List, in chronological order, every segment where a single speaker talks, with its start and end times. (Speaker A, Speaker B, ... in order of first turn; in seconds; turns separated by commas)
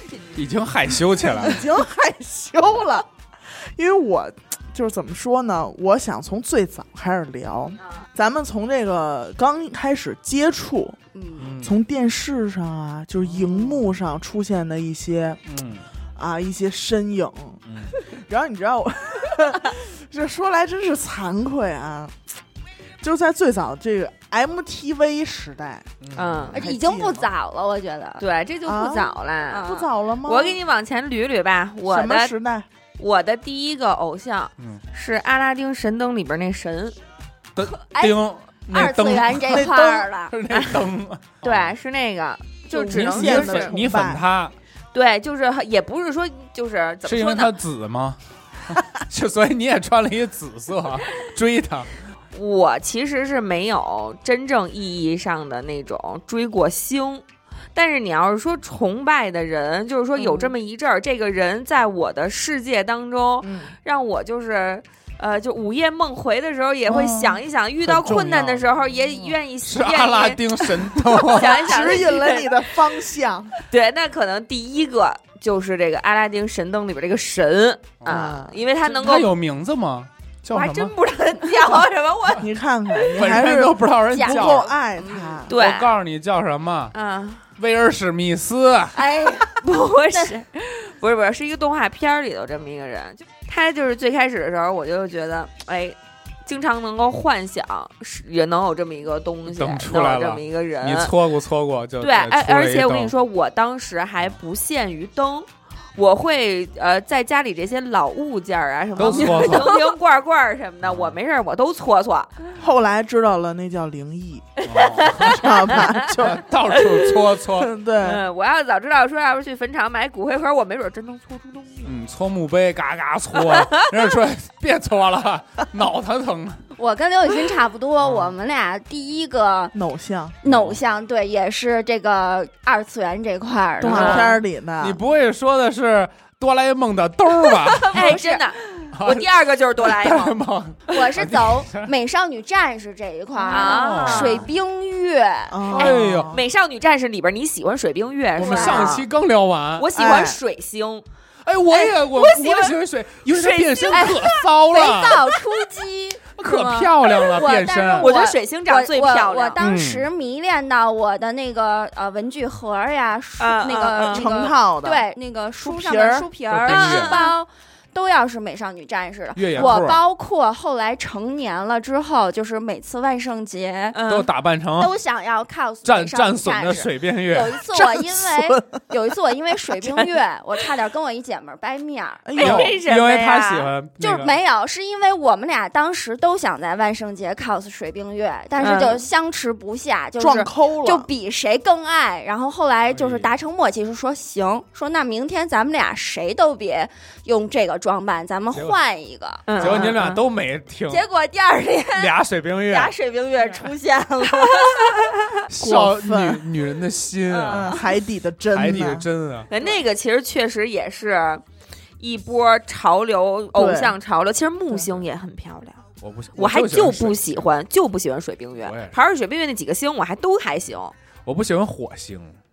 Speaker A: 0.3-1.7, Speaker B: 1.2-11.0, Speaker C: 11.1-11.5, Speaker A: 11.4-11.8, Speaker B: 11.6-15.4, Speaker A: 13.3-13.9, Speaker A: 15.5-15.9, Speaker B: 16.2-22.1, Speaker A: 17.7-17.9, Speaker B: 23.0-25.9, Speaker A: 26.0-26.6, Speaker D: 26.1-26.6, Speaker C: 26.5-28.2, Speaker B: 26.5-27.3, Speaker D: 28.2-29.7, Speaker B: 28.6-30.6, Speaker C: 29.5-29.9, Speaker D: 30.2-32.3, Speaker B: 31.9-32.7, Speaker D: 33.0-37.0, Speaker A: 37.6-41.7, Speaker C: 37.6-38.2, Speaker C: 38.7-40.4, Speaker D: 40.5-40.9, Speaker D: 41.4-43.7, Speaker B: 42.7-44.2, Speaker A: 42.9-44.5, Speaker D: 44.9-47.5, Speaker A: 47.1-51.9, Speaker D: 52.3-57.2, Speaker D: 57.7-72.6, Speaker C: 60.2-60.5, Speaker B: 63.4-63.7, Speaker A: 66.9-71.6, Speaker B: 71.4-73.5, Speaker D: 73.6-79.3, Speaker A: 78.0-78.3, Speaker B: 78.1-78.6, Speaker A: 78.8-81.0, Speaker D: 80.5-82.5, Speaker C: 81.4-81.8, Speaker B: 82.4-85.5, Speaker A: 83.2-84.7, Speaker C: 84.1-85.4, Speaker D: 85.5-86.0, Speaker A: 85.5-86.9, Speaker D: 86.9-87.5, Speaker A: 87.6-89.0, Speaker C: 89.0-90.4, Speaker D: 89.4-101.1, Speaker A: 99.5-103.1, Speaker D: 102.0-112.3, Speaker B: 109.0-109.4, Speaker A: 109.0-109.7, Speaker C: 109.2-109.8, Speaker A: 110.8-111.2, Speaker B: 112.6-114.5, Speaker A: 114.6-115.4, Speaker D: 114.7-115.9, Speaker B: 115.1-116.5, Speaker A: 116.2-117.7, Speaker D: 116.7-117.3, Speaker B: 117.5-118.2, Speaker D: 118.0-121.9, Speaker A: 121.8-126.6, Speaker D: 123.4-123.8, Speaker C: 126.8-129.7, Speaker A: 128.0-128.3, Speaker B: 129.7-130.4, Speaker C: 130.4-134.3, Speaker A: 130.5-130.8, Speaker A: 133.8-138.2, Speaker B: 133.8-135.0, Speaker C: 137.8-138.5, Speaker D: 137.8-140.4, Speaker A: 138.9-139.3, Speaker A: 139.8-141.9, Speaker C: 140.9-145.8, Speaker D: 143.5-144.5, Speaker A: 143.6-144.5, Speaker B: 145.5-146.4, Speaker D: 145.7-149.1, Speaker A: 145.8-146.3, Speaker A: 148.3-149.9, Speaker C: 148.4-148.9, Speaker D: 149.8-151.0, Speaker B: 150.0-150.4, Speaker A: 151.4-155.3, Speaker D: 151.7-152.8, Speaker D: 153.3-154.5, Speaker C: 153.9-174.0, Speaker A: 156.4-158.1, Speaker D: 158.0-159.6, Speaker A: 159.6-160.1, Speaker D: 163.4-164.2, Speaker B: 164.1-165.0, Speaker B: 165.6-166.3, Speaker A: 166.5-167.2, Speaker D: 166.6-167.3, Speaker A: 169.3-170.0, Speaker D: 173.9-174.3, Speaker A: 174.1-174.9, Speaker C: 174.8-182.3, Speaker A: 175.8-177.6, Speaker B: 177.7-178.8, Speaker D: 179.8-180.1, Speaker B: 182.2-182.8, Speaker D: 182.4-183.7, Speaker A: 182.4-184.3, Speaker C: 184.0-199.9, Speaker D: 188.6-189.0, Speaker B: 190.2-191.1, Speaker A: 192.9-193.3, Speaker D: 199.5-200.2, Speaker A: 199.6-201.1, Speaker C: 200.9-204.9, Speaker A: 201.9-202.9, Speaker D: 204.3-205.0, Speaker A: 205.5-207.8, Speaker B: 205.6-206.5, Speaker C: 207.4-207.8, Speaker B: 207.5-209.1, Speaker A: 208.5-209.5, Speaker D: 209.5-211.4, Speaker D: 212.0-215.8, Speaker B: 213.5-214.0, Speaker A: 216.0-217.5, Speaker D: 216.4-220.9, Speaker A: 218.6-218.9, Speaker A: 221.3-222.4